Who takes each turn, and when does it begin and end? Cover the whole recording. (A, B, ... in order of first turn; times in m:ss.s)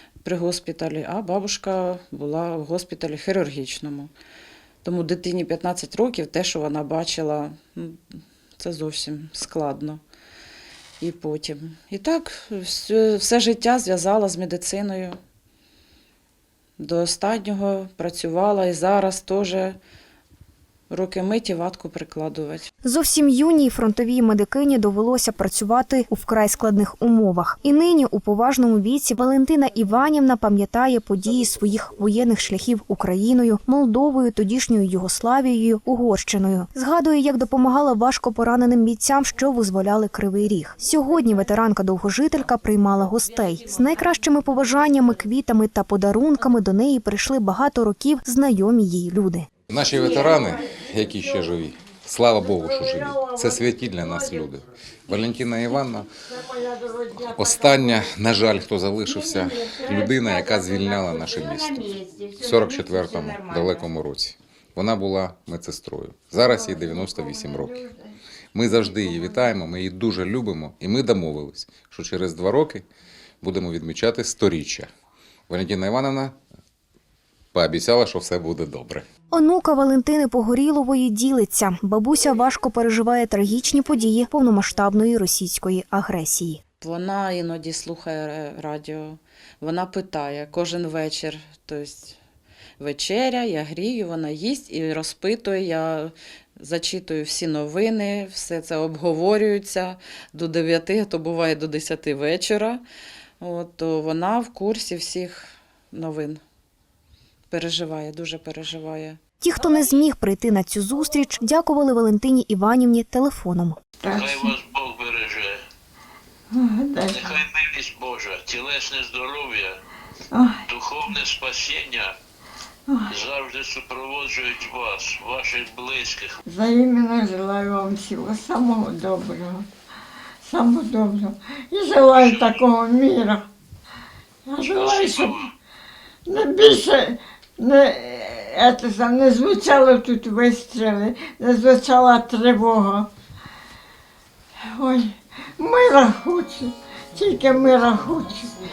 0:00.2-0:04.1 A
0:04.8-0:08.0 A
0:08.6-0:10.0 A
0:11.0-0:15.2 A
0:16.8-0:19.8 A
0:20.9-0:22.7 A
0:22.8-0:49.5 B
0:49.7-0:56.1 C
0:56.4-0:57.3 D
0:57.2-1:07.8 C
1:06.8-1:07.9 D
1:08.5-1:12.8 C
1:13.4-1:14.9 C
1:15.5-1:16.4 C
1:17.5-1:19.0 C
1:19.3-1:26.6 B
1:26.8-1:32.2 A
1:32.8-1:42.8 A
1:43.4-1:46.4 A
1:47.5-1:49.2 A
1:49.4-1:53.8 B
1:54.0-1:54.5 D
1:54.1-1:55.6 E
1:56.5-1:57.4 D
1:57.1-1:59.7 E
2:00.3-2:00.6 D
2:00.7-2:02.1 E
2:03.1-2:06.4 E
2:06.4-2:09.6 D
2:10.4-2:13.5 D
2:12.1-2:12.6 E
2:14.4-2:15.4 D
2:14.6-2:15.5 E
2:16.2-2:23.1 D
2:24.7-2:28.5 D